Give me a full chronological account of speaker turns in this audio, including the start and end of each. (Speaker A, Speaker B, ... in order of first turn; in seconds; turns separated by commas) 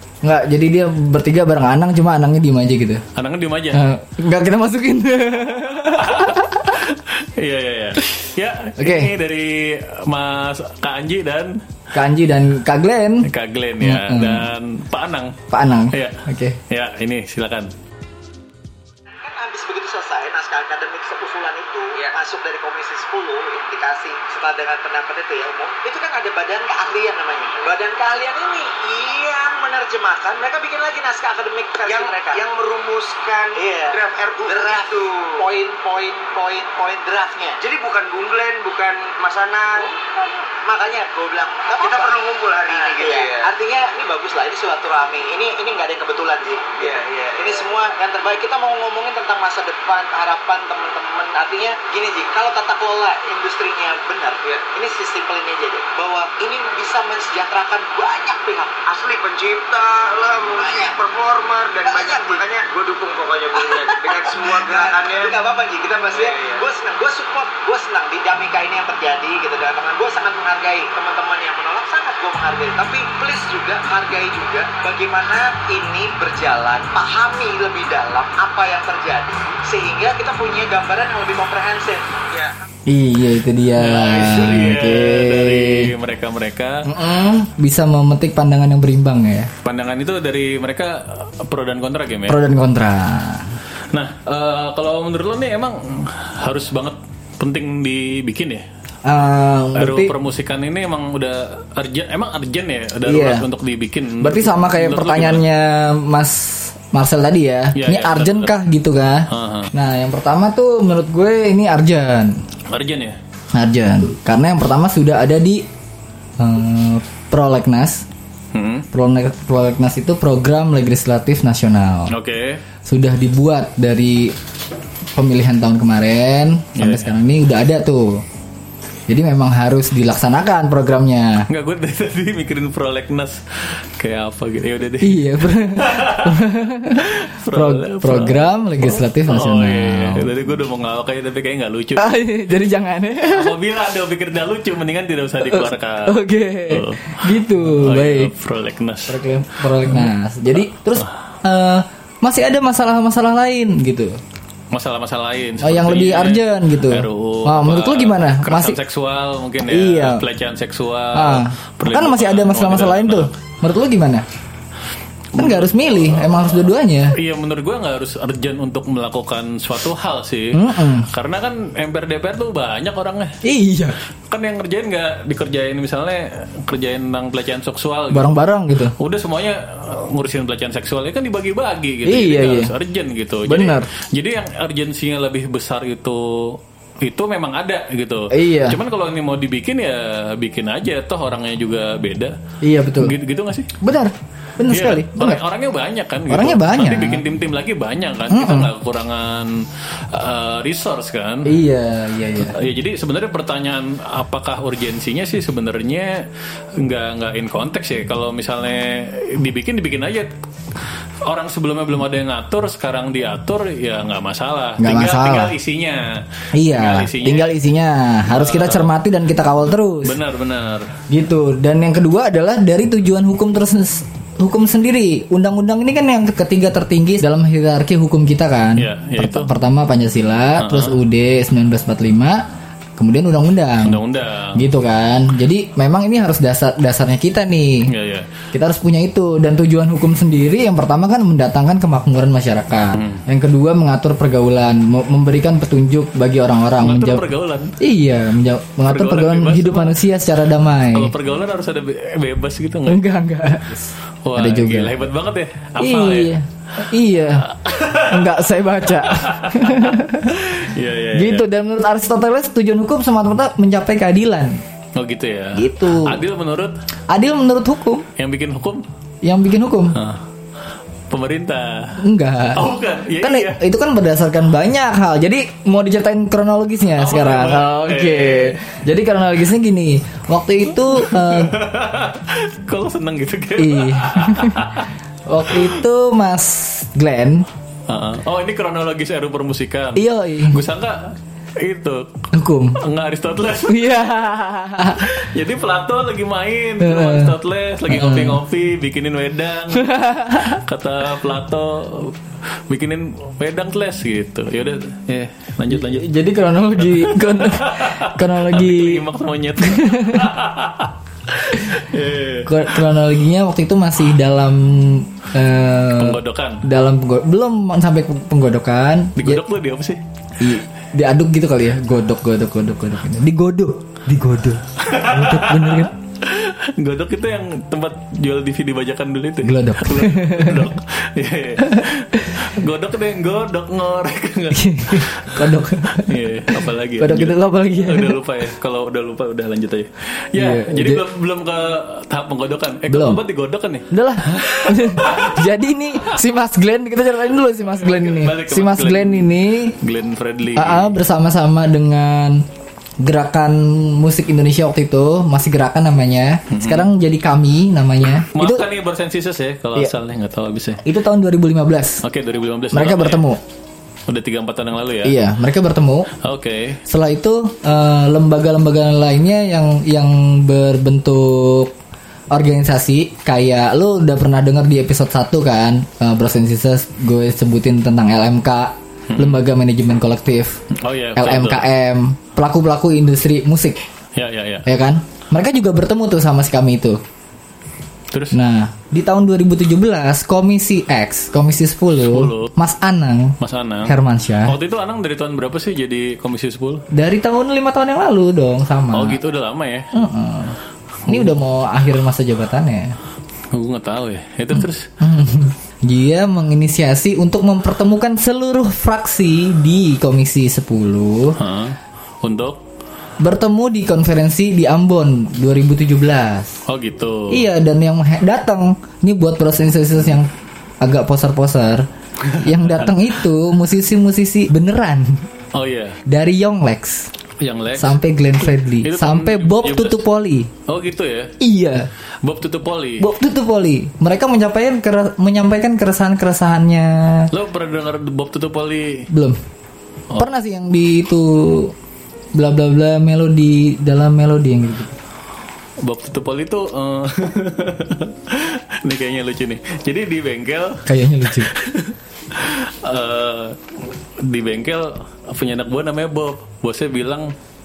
Speaker A: 0.2-3.0, Speaker B: 3.1-3.8, Speaker A: 3.7-6.6, Speaker B: 5.8-11.6, Speaker A: 8.8-9.1, Speaker A: 11.9-13.3, Speaker B: 13.2-15.3, Speaker A: 13.8-14.5, Speaker A: 15.5-16.6, Speaker B: 15.9-17.7, Speaker C: 19.2-32.4, Speaker D: 31.9-35.5, Speaker C: 33.5-37.6, Speaker D: 37.6-39.9, Speaker C: 39.7-58.8, Speaker D: 41.8-43.5, Speaker D: 46.8-47.7, Speaker D: 58.9-65.4, Speaker C: 60.5-61.0, Speaker C: 61.8-62.5, Speaker C: 63.5-82.1, Speaker D: 66.1-66.7, Speaker A: 82.9-85.9, Speaker B: 83.7-86.8, Speaker A: 86.8-89.5, Speaker B: 89.6-92.4, Speaker A: 92.3-93.5, Speaker B: 93.9-98.6, Speaker A: 99.0-100.1, Speaker B: 99.7-105.4, Speaker A: 103.0-103.5, Speaker A: 104.2-112.3, Speaker B: 107.7-108.5, Speaker B: 109.3-109.7, Speaker B: 112.7-113.2, Speaker A: 113.5-115.6, Speaker A: 116.4-118.0, Speaker B: 118.5-118.9, Speaker A: 118.9-122.1, Speaker B: 122.1-122.6, Speaker A: 122.8-124.3, Speaker A: 125.1-128.2, Speaker B: 126.8-127.1, Speaker A: 129.1-131.5, Speaker B: 131.5-142.1, Speaker A: 135.0-140.3, Speaker A: 142.0-143.5, Speaker B: 143.2-150.1, Speaker A: 145.4-148.3, Speaker A: 149.1-154.2, Speaker B: 154.7-163.3, Speaker A: 155.6-158.8, Speaker A: 159.6-160.2, Speaker A: 161.1-164.2, Speaker B: 165.3-173.4, Speaker A: 165.4-167.1, Speaker A: 170.5-171.1, Speaker A: 173.4-173.9, Speaker B: 174.3-178.4, Speaker A: 178.1-178.9, Speaker B: 179.0-192.3, Speaker A: 182.0-182.7, Speaker A: 183.4-183.9, Speaker A: 188.3-188.8, Speaker A: 192.6-193.1, Speaker B: 193.0-193.7, Speaker A: 193.8-195.4, Speaker B: 194.7-201.6, Speaker A: 196.3-197.2, Speaker A: 198.3-198.7, Speaker A: 201.4-202.5, Speaker B: 202.4-210.3, Speaker B: 211.2-217.6, Speaker A: 214.8-215.5, Speaker A: 216.5-220.2, Speaker B: 218.2-218.9, Speaker B: 220.0-220.9, Speaker A: 221.1-232.4, Speaker B: 228.8-229.5, Speaker B: 230.6-231.0, Speaker A: 233.0-234.0, Speaker B: 233.8-234.7, Speaker A: 234.5-237.9, Speaker B: 237.9-238.3, Speaker A: 238.5-247.2, Speaker B: 242.9-243.2, Speaker B: 246.8-247.7, Speaker A: 247.8-251.1, Speaker B: 248.8-250.0, Speaker B: 250.9-253.0, Speaker A: 252.9-255.0, Speaker B: 254.2-256.3, Speaker A: 255.8-257.4, Speaker B: 257.4-261.5, Speaker A: 258.1-260.4, Speaker A: 261.1-264.6, Speaker B: 264.9-266.8, Speaker A: 265.5-266.2, Speaker A: 267.1-268.1, Speaker B: 268.2-268.9, Speaker A: 269.2-269.9, Speaker B: 269.9-270.2, Speaker B: 271.1-272.0, Speaker A: 272.0-281.5, Speaker B: 272.5-273.6, Speaker B: 276.9-278.6, Speaker B: 280.7-284.9, Speaker A: 283.6-284.7, Speaker A: 285.3-287.4, Speaker B: 285.5-285.8, Speaker B: 287.9-292.1, Speaker A: 289.9-290.6, Speaker A: 292.3-292.8, Speaker B: 292.8-294.1, Speaker A: 293.7-295.1, Speaker B: 294.9-306.1, Speaker A: 296.8-297.3, Speaker A: 297.9-298.4, Speaker A: 299.7-300.6, Speaker A: 305.7-309.0, Speaker B: 306.8-312.8, Speaker A: 309.6-310.3, Speaker A: 312.4-319.4, Speaker B: 316.0-316.6, Speaker B: 319.1-320.0, Speaker A: 320.4-325.9, Speaker B: 324.8-345.4, Speaker A: 329.4-330.7, Speaker A: 334.5-336.1, Speaker A: 337.0-338.2, Speaker A: 340.4-341.0, Speaker A: 342.9-343.2, Speaker A: 343.9-349.8, Speaker B: 347.7-351.0, Speaker A: 350.6-352.4, Speaker A: 353.0-358.6, Speaker B: 356.5-356.9, Speaker B: 358.3-360.8, Speaker A: 360.8-362.0, Speaker B: 362.0-363.2, Speaker A: 362.7-363.4, Speaker B: 364.1-365.2, Speaker A: 365.0-366.1, Speaker B: 366.2-366.8, Speaker A: 366.9-371.7, Speaker A: 372.3-380.6, Speaker B: 379.1-379.4, Speaker B: 380.7-381.6, Speaker A: 381.1-383.8, Speaker B: 384.1-384.6, Speaker A: 384.6-387.0, Speaker B: 388.1-388.4, Speaker A: 388.3-394.5, Speaker B: 392.1-392.5, Speaker B: 393.4-396.8, Speaker A: 396.9-399.2, Speaker B: 398.9-399.9, Speaker A: 399.9-402.9, Speaker B: 401.1-401.4, Speaker B: 403.5-404.9, Speaker A: 405.0-411.4, Speaker B: 411.4-412.6, Speaker A: 413.2-416.6, Speaker B: 416.7-417.5, Speaker A: 417.3-420.3, Speaker A: 420.8-421.9, Speaker B: 422.2-422.9, Speaker A: 422.4-425.2, Speaker B: 425.5-426.0, Speaker A: 426.1-427.1, Speaker B: 427.4-428.0, Speaker A: 427.8-430.5, Speaker B: 428.8-430.0, Speaker B: 430.7-431.3, Speaker A: 431.4-431.9, Speaker B: 432.2-433.1, Speaker A: 433.0-437.3, Speaker B: 437.3-439.1, Speaker A: 439.1-439.4, Speaker A: 440.1-441.7, Speaker A: 442.3-444.9, Speaker B: 445.8-453.6, Speaker A: 450.9-451.5, Speaker B: 454.2-457.3